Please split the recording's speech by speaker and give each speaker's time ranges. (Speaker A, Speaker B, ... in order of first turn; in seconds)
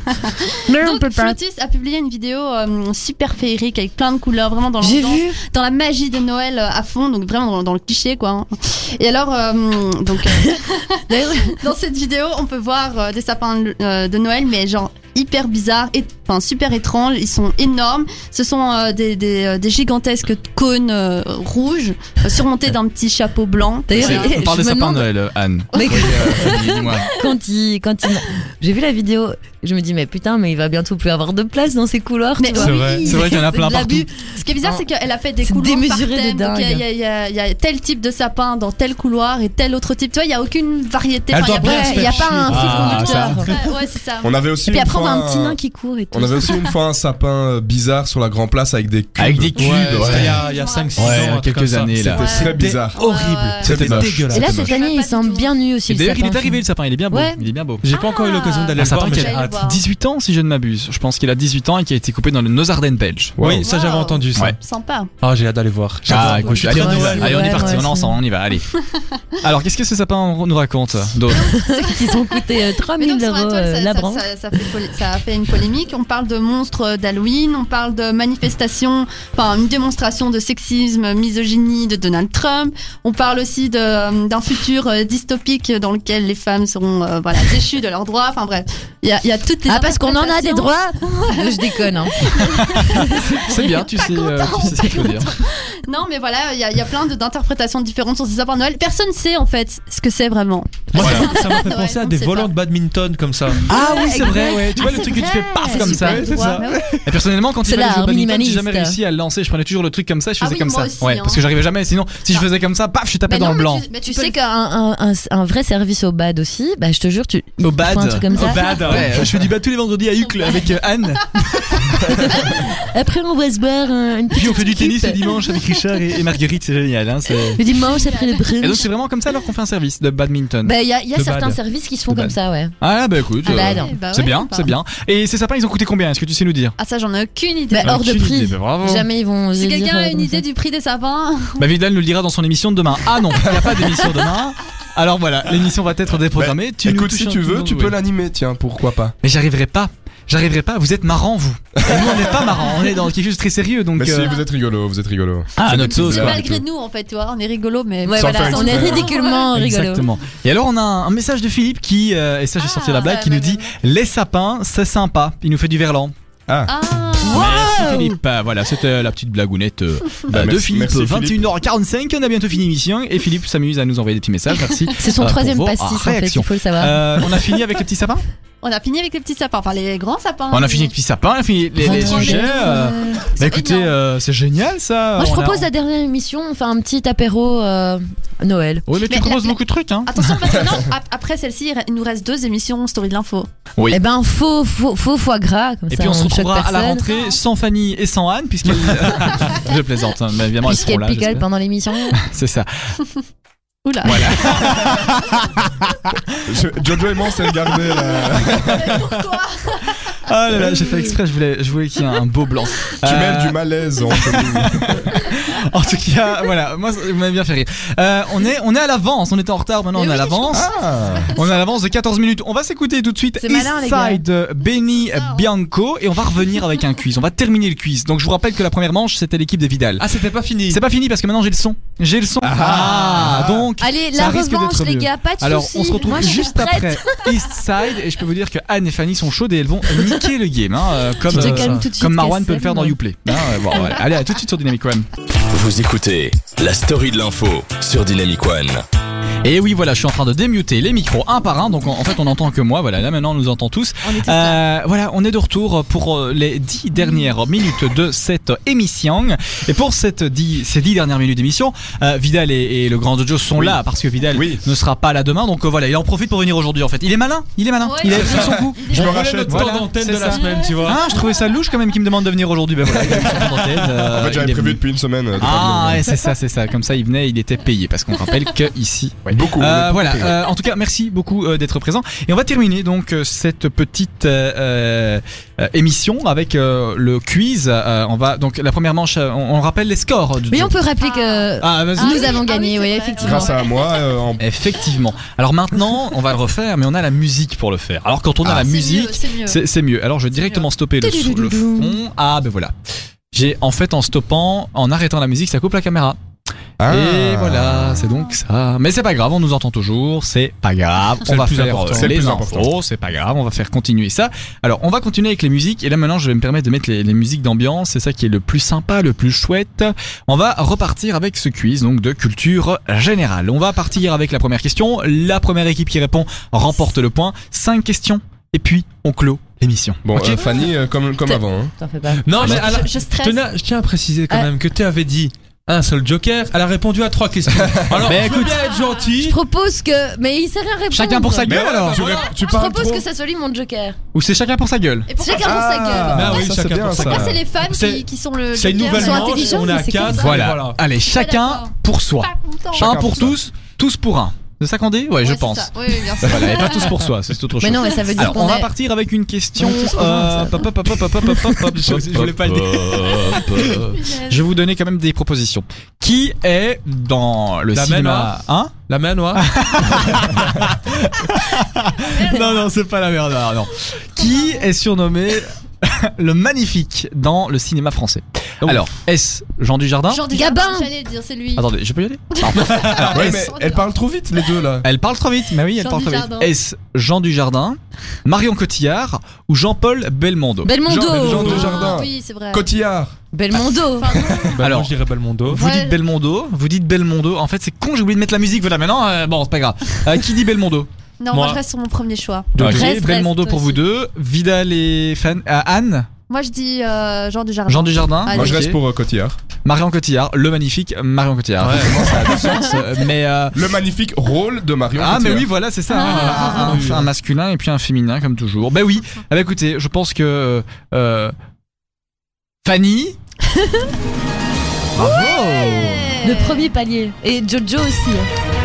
Speaker A: 0.2-24.4, 25.9-27.0, 32.4-33.3, 34.2-44.3, 49.9-51.3, 52.2-53.8, 54.4-55.5, 57.1-59.8, 63.5-65.1, 71.3-102.5, 103.7-106.8, 110.4-111.4, 113.3-114.4, 120.4-120.7, 127.7-128.5, 133.4-134.7, 136.8-138.0, 139.6-141.6, 155.6-159.5, 162.6-163.7, 166.7-167.6, 178.6-180.9, 183.3-183.9, 189.1-193.5, 203.8-204.8, 208.0-210.0, 219.9-221.7, 225.0-225.5, 267.8-269.3, 270.3-271.2, 291.0-294.0, 298.4-299.6, 300.3-300.7, 332.3-333.4, 345.1-345.9, 346.9-350.1, 351.0-353.0, 355.2-357.1, 363.7-364.4, 372.1-372.7, 374.2-374.6, 380.1-381.7, 382.4-383.9, 385.8-386.5, 391.2-392.6, 394.0-394.6, 395.5-396.0, 401.2-402.6, 406.3-408.7, 415.9-416.6, 425.0-426.5
Speaker B: 0.7-1.4, 4.8-5.4, 11.1-11.6, 23.9-25.1, 25.7-34.1, 35.4-36.8, 41.5-43.6, 44.6-46.5, 54.3-56.6, 66.2-68.2, 71.4-74.2, 89.7-93.1, 103.7-106.7, 107.6-109.0, 113.4-119.1, 122.1-125.6, 127.5-128.8, 130.6-132.7, 133.4-133.9, 137.7-140.4, 158.0-160.1, 167.2-168.2, 175.0-177.2, 181.8-183.3, 185.2-188.8, 193.9-197.0, 200.6-202.2, 223.4-224.2, 233.8-237.3, 241.2-244.0, 254.0-254.6, 290.5-293.6, 301.0-302.0, 331.2-332.6, 339.2-344.0, 345.2-346.5, 348.9-350.3, 357.6-358.7, 380.3-380.9, 390.6-391.8, 393.3-394.1, 402.6-403.8, 426.2-428.3
Speaker C: 23.9-27.1, 33.0-34.1, 42.5-43.4, 49.2-50.4, 51.0-52.2, 53.6-54.8, 55.9-57.9, 58.8-63.4, 66.0-68.7, 69.4-71.5, 92.8-95.3, 101.0-101.4, 103.7-113.8, 117.6-122.2, 124.3-127.6, 128.6-130.7, 132.1-136.7, 137.8-139.1, 141.6-147.9, 149.2-154.4, 155.6-156.5, 159.5-166.1, 167.3-178.2, 180.5-185.7, 188.9-190.4, 195.9-201.4, 202.1-202.7, 204.0-206.2, 210.2-213.6, 214.1-220.7, 221.3-230.1, 230.7-245.1, 249.4-274.8, 275.4-290.7, 291.6-292.3, 294.4-302.7, 303.3-306.2, 306.9-330.6, 338.0-338.5, 340.9-342.1, 344.1-345.1, 350.1-368.7, 369.3-380.2, 381.5-383.5, 384.8-390.8, 394.6-394.9, 395.5-400.9, 402.6-406.1, 407.7-408.8, 409.6-413.6, 414.9-421.3, 422.6-423.2, 424.9-426.3
Speaker D: 32.5-33.1, 41.3-43.4, 49.5-54.5, 57.8-59.7, 63.4-64.6, 65.2-67.8, 100.9-103.7, 118.3-119.4, 131.1-131.6, 230.0-230.8, 241.3-241.9, 268.7-271.1, 311.2-312.1, 332.2-339.4, 341.5-342.3, 346.0-350.8, 359.6-362.5, 363.1-363.9, 367.7-370.0, 391.1-391.7, 394.6-395.6, 401.3-401.6, 402.6-403.1, 411.6-412.0, 416.6-417.1
Speaker E: 44.2-45.6, 46.1-50.3, 52.0-53.0, 53.6-54.1, 63.4-63.7, 146.3-149.1, 151.8-152.4, 153.9-156.6, 158.1-159.1, 170.3-171.5, 206.4-209.1, 213.0-215.1, 220.5-221.3, 232.4-233.7, 263.5-263.8, 264.3-264.6, 268.2-269.7, 274.0-276.1, 279.3-280.4, 293.2-294.4, 306.8-307.9, 311.9-312.8, 330.0-331.7, 337.7-338.1, 341.5-343.0, 345.4-347.4, 352.7-353.4, 383.0-384.9, 390.8-393.1, 408.3-409.4, 411.9-412.5, 413.5-415.5
Speaker F: 245.5-248.8